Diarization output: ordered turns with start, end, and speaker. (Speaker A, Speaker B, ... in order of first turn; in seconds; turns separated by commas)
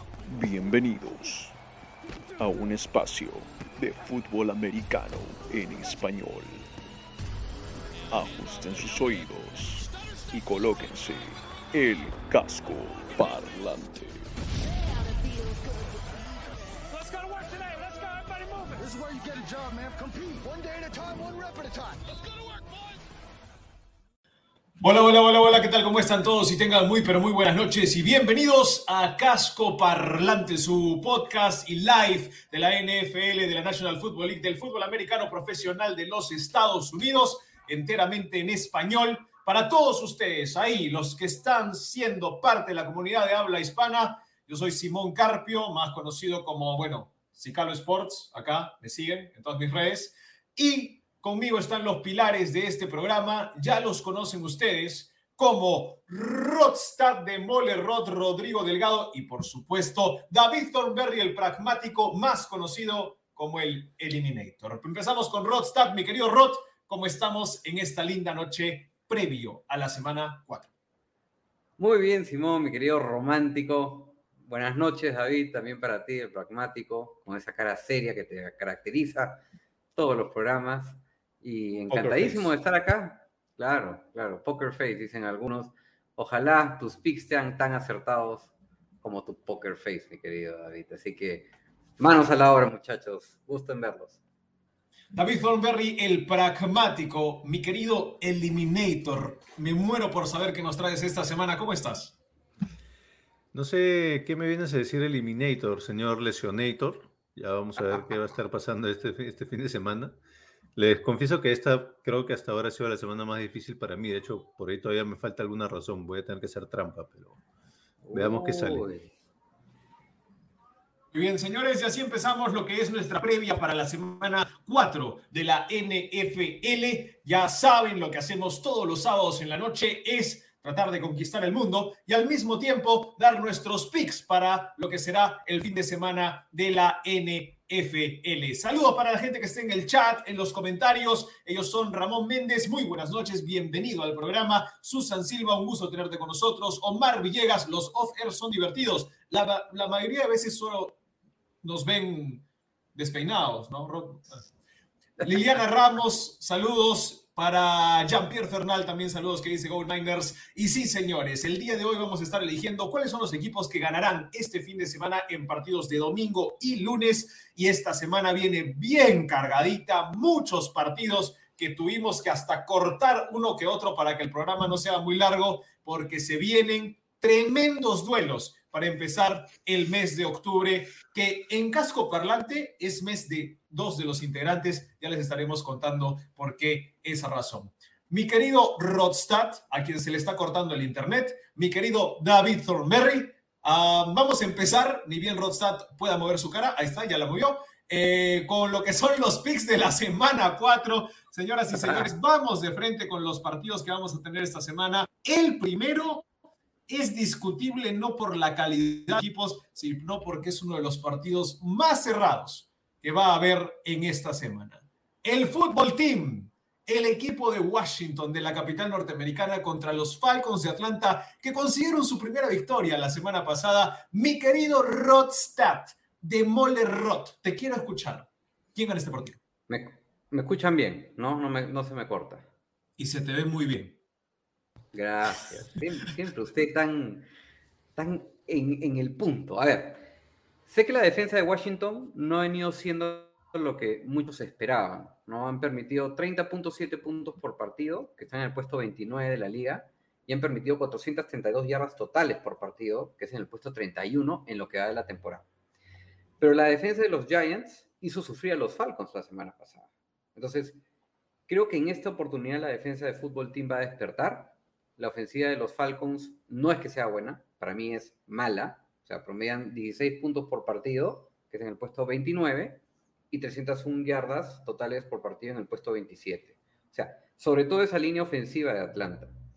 Speaker A: 0.2-1.6, Speaker A: 2.4-6.7, Speaker A: 8.1-14.2, Speaker B: 14.9-16.6, Speaker C: 16.9-18.8, Speaker B: 18.8-22.6, Speaker C: 24.8-70.7, Speaker D: 71.8-79.4, Speaker D: 80.0-94.2, Speaker C: 81.9-82.5, Speaker C: 95.2-102.2, Speaker E: 103.5-110.2, Speaker E: 110.8-117.4, Speaker D: 118.0-119.1, Speaker E: 118.1-118.9, Speaker C: 121.1-151.0, Speaker C: 151.6-152.4, Speaker C: 152.9-154.5, Speaker C: 155.2-206.2, Speaker D: 201.8-202.1, Speaker C: 206.9-229.4, Speaker D: 229.7-232.5, Speaker C: 233.0-234.0, Speaker D: 234.9-237.3, Speaker D: 238.0-240.1, Speaker D: 240.7-255.5, Speaker D: 256.4-260.8, Speaker D: 261.5-279.4